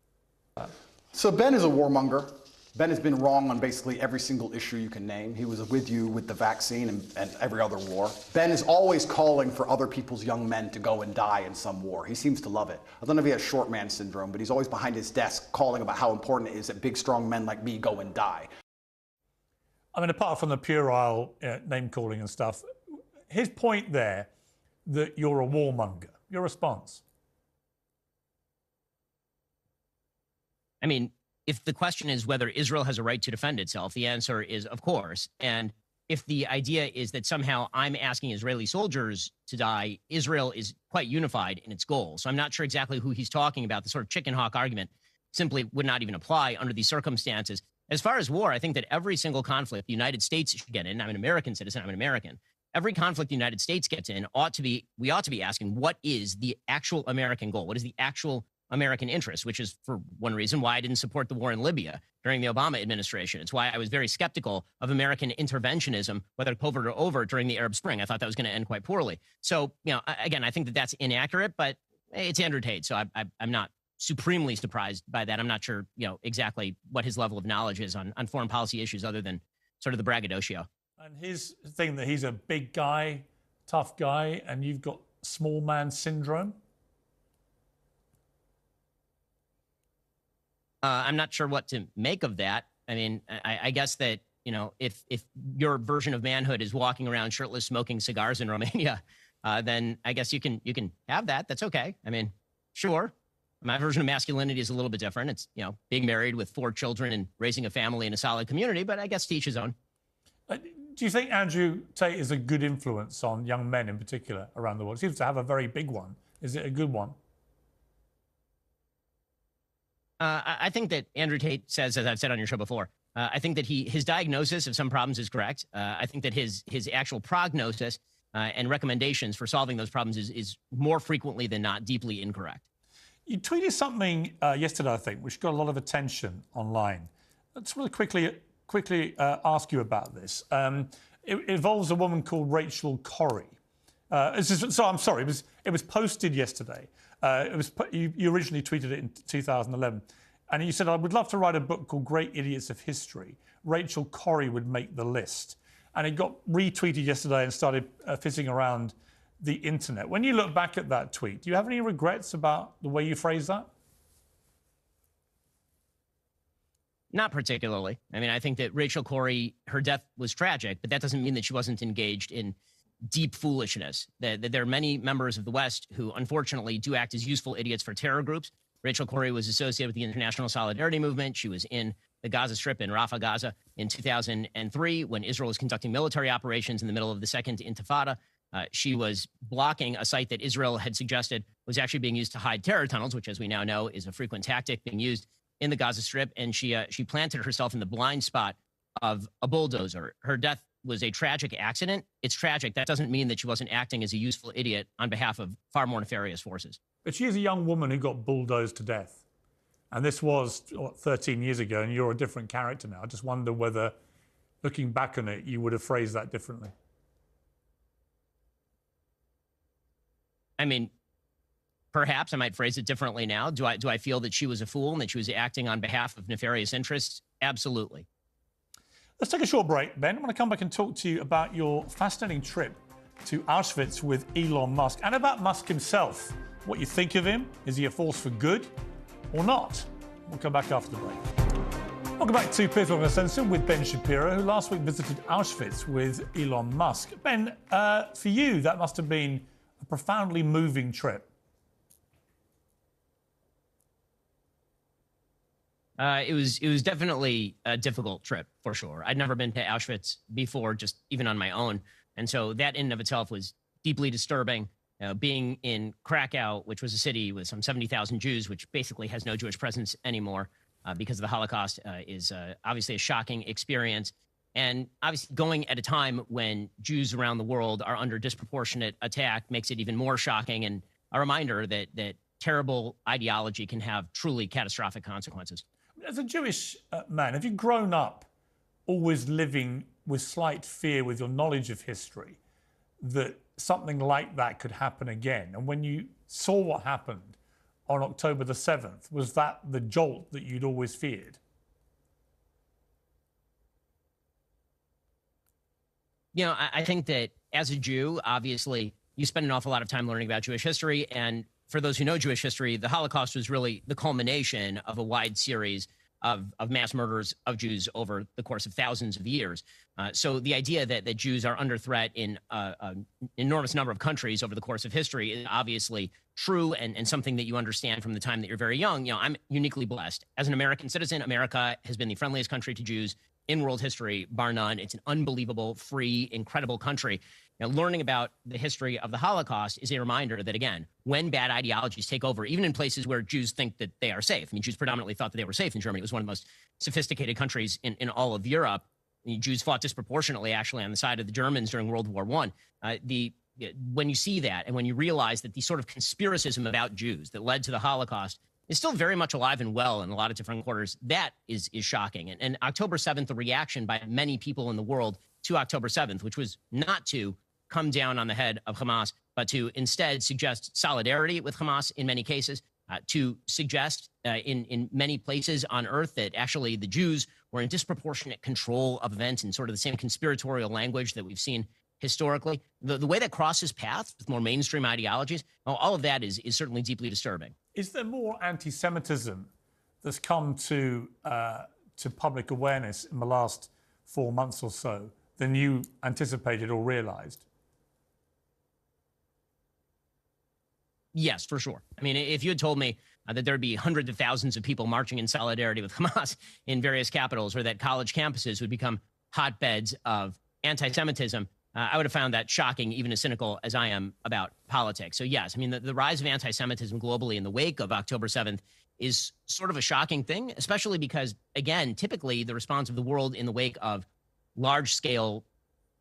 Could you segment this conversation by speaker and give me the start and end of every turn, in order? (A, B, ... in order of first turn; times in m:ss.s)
0:00.6-0:18.5 A
0:19.9-0:22.6 B
0:23.3-0:24.3 B
0:24.9-0:27.0 B
0:30.8-1:20.7 C
1:21.0-1:26.6 B
1:30.8-1:49.8 C
1:50.5-1:57.2 B
2:00.2-2:12.6 C
2:13.3-2:23.5 B
2:24.1-2:43.7 B
2:47.1-3:26.8 C
3:27.0-3:29.2 B
3:29.9-3:34.0 B
3:34.6-3:36.7 B
3:40.6-3:40.9 C
3:41.9-3:48.1 C
3:49.2-3:58.7 B
3:59.3-4:01.2 B
4:02.2-4:11.3 B
4:16.0-4:45.6 C
4:46.0-4:48.3 B
4:48.9-4:52.4 B
4:53.0-4:57.4 B
4:57.9-5:01.4 B
5:06.3-6:27.5 C
6:27.8-6:29.5 B
6:30.0-6:37.4 B
6:41.1-7:05.4 C